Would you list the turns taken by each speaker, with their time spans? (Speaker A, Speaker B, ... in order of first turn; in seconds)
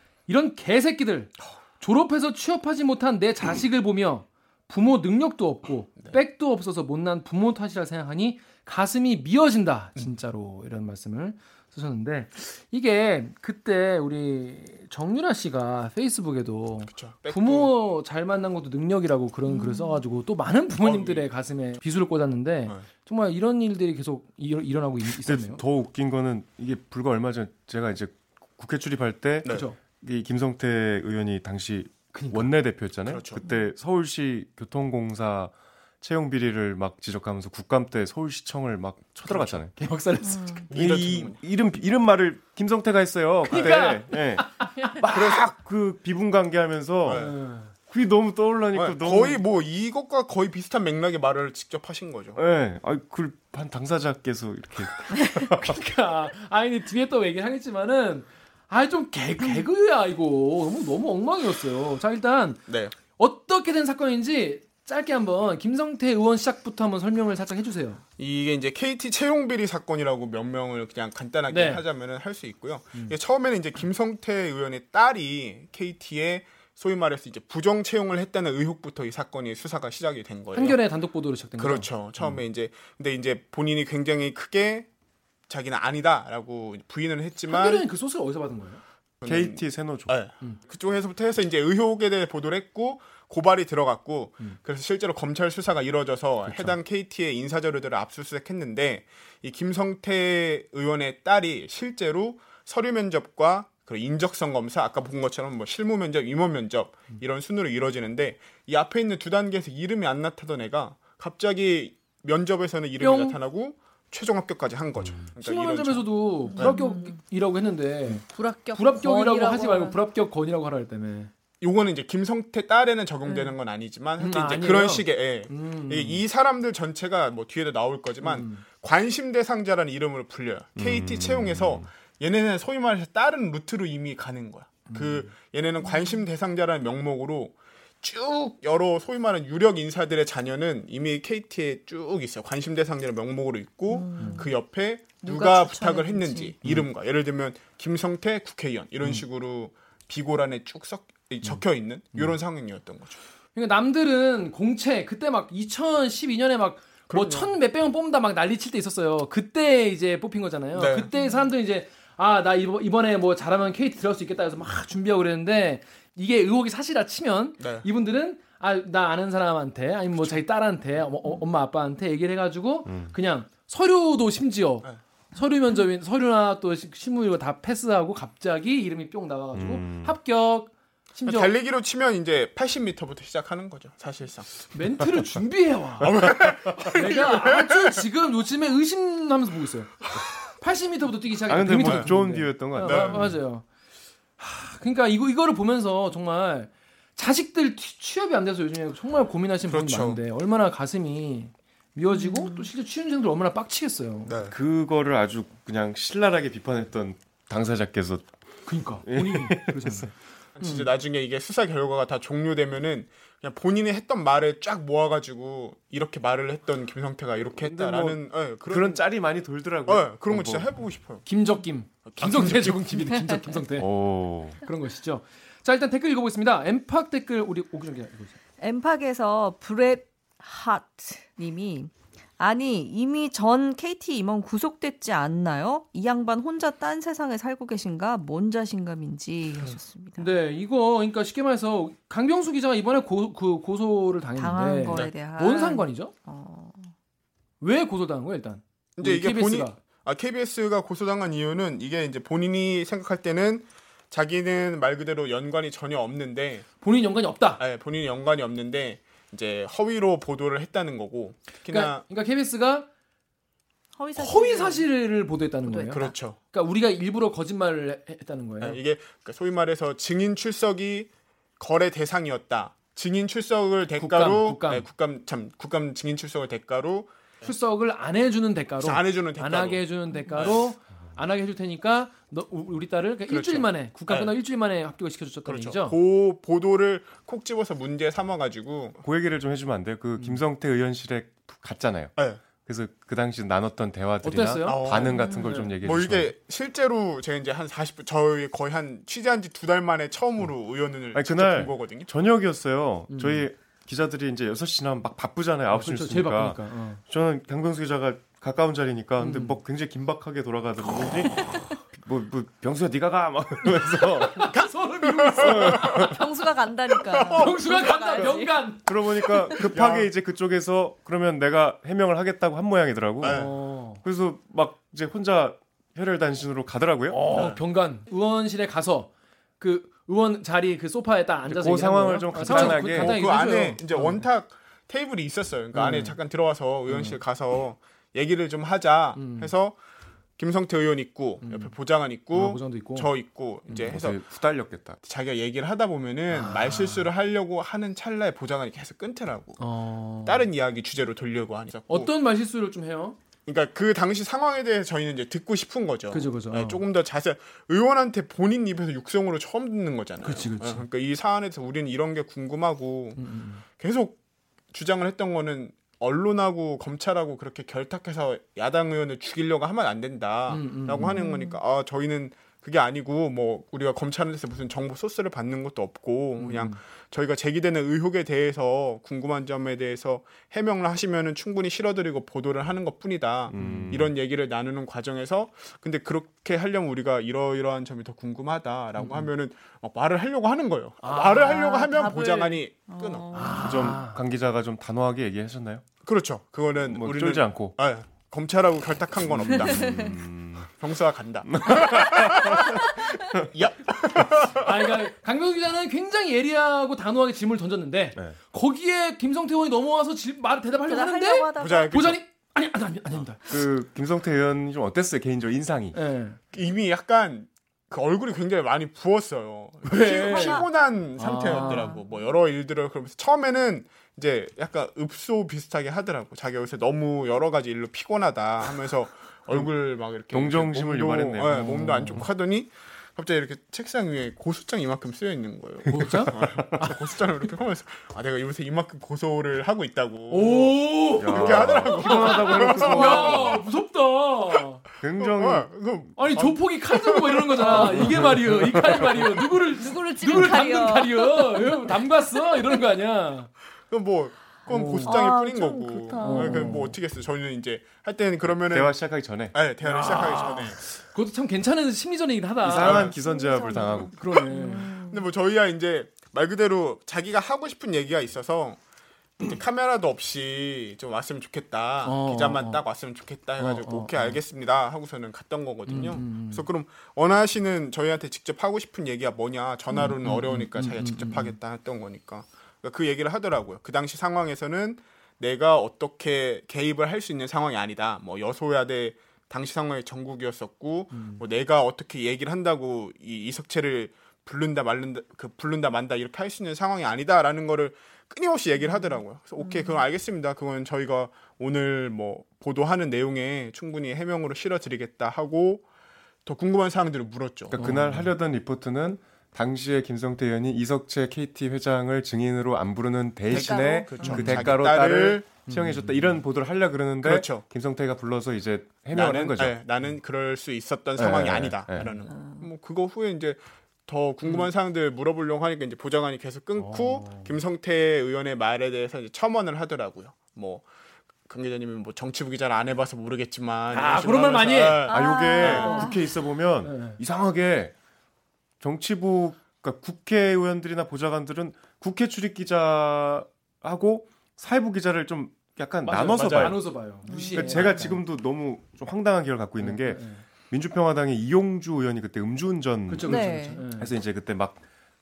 Speaker A: 0.3-25.6, 29.5-29.8, 32.1-32.5, 39.8-40.7, 43.5-45.4, 47.1-47.7, 55.5-62.7, 63.2-68.0, 71.5-71.8, 80.5-81.9, 87.5-88.8, 113.0-113.4, 115.4-121.3, 124.2-126.2, 128.2-128.6, 134.9-135.3, 144.2-144.5, 153.6-181.5, 184.7-186.3, 186.8-190.0, 190.6-193.7, 194.4-204.3, 208.7-210.9, 221.2-223.9, 224.6-228.4, 239.7-246.1, 247.6-249.8, 256.8-257.6, 261.7-262.9, 264.2-268.8, 274.0-274.9, 277.4-286.0, 294.2-295.7, 303.1-303.5, 305.7-307.0, 309.2-309.6, 313.9-316.2, 317.3-318.8, 323.3-324.0, 327.1-334.2, 335.7-336.2, 336.9-337.2, 339.2-339.5, 341.4-341.7, 342.3-343.1, 346.3-347.1, 349.6-350.5, 351.9-353.2, 356.1-356.8, 360.2-360.9, 363.2-363.6, 370.5-371.3, 376.4-376.8, 383.6-384.0, 389.0-389.3, 391.0-391.7, 393.3-394.2, 404.6-413.4, 415.9-416.4, 419.9-420.6, 421.2-422.0, 431.6-432.2, 435.9-437.1, 440.3-444.8, 446.2-453.5, 454.7-455.2, 456.2-457.0, 459.8-463.1, 464.0-464.9, 472.0-472.8, 473.6-474.4, 475.9-476.7, 479.9-481.6, 491.1-491.4, 507.8-508.3, 515.7-516.3, 526.8-527.5, 533.9-535.1, 535.7-536.1, 536.8-537.2, 546.1-548.2, 549.8-550.4, 553.1-554.1
Speaker B: 16.9-17.7, 20.8-21.3, 33.1-33.4, 39.3-39.6, 40.7-41.4, 45.1-45.5, 47.0-47.4, 48.7-52.4, 62.7-62.9, 68.2-80.8, 81.6-84.9, 85.5-87.9, 89.2-116.8, 121.6-153.2, 157.1-157.5, 160.8-161.1, 167.6-167.9, 181.2-184.5, 186.0-188.0, 191.8-192.1, 192.8-193.3, 199.7-200.2, 204.3-204.6, 210.6-219.0, 219.9-221.2, 222.1-223.1, 249.0-256.7, 257.6-262.0, 265.9-266.4, 268.6-277.5, 278.8-280.6, 283.3-284.3, 285.5-289.0, 292.2-292.4, 294.7-302.1, 315.0-315.6, 317.1-317.5, 319.7-320.1, 323.2-323.5, 327.3-327.6, 332.4-339.8, 340.4-344.2, 345.0-349.6, 350.2-352.1, 353.5-364.2, 364.7-393.5, 396.0-400.1, 400.7-404.7, 411.6-412.2, 416.5-443.6, 445.2-448.5, 453.9-458.9, 459.5-460.8, 462.8-463.1, 465.1-468.8, 469.4-505.9, 506.5-507.8, 513.5-515.5, 517.2-517.6, 519.1-530.9, 531.5-536.1, 546.3-546.8
Speaker C: 19.5-20.0, 40.2-40.6, 116.5-117.2, 118.3-120.0, 123.2-123.5, 143.9-144.6, 145.2-146.6, 161.1-161.4, 202.1-202.7, 228.6-240.3, 244.4-246.9, 264.0-264.9, 265.6-266.1, 295.1-295.6, 311.4-311.6, 315.6-318.7, 319.2-319.7, 371.1-371.6, 391.3-393.9, 399.8-400.1, 410.9-412.1, 420.0-420.7, 421.4-422.2, 447.7-448.0, 449.6-452.0, 455.0-456.8, 463.2-465.2, 499.6-500.0, 513.5-514.6, 522.3-522.6, 535.1-536.2, 547.3-547.9, 553.2-553.8
Speaker D: 25.2-39.7, 40.7-47.3, 47.9-49.4, 52.4-55.8, 89.3-90.2, 130.8-131.9, 172.9-173.1, 179.5-180.2, 191.5-193.4, 204.5-208.3, 209.1-210.1, 217.6-220.7, 223.8-224.6, 289.0-296.3, 301.1-314.6, 315.4-316.1, 318.2-323.5, 324.0-327.2, 331.4-333.3, 343.9-345.0, 383.5-384.1, 393.6-395.8, 396.9-397.8, 399.3-400.7, 401.5-403.5, 413.5-416.0, 430.3-431.9, 436.0-436.6, 441.2-443.6, 445.0-445.7, 448.0-449.1, 458.5-459.6, 462.6-464.2, 507.7-519.8, 521.2-522.1, 535.1-538.0, 538.8-554.8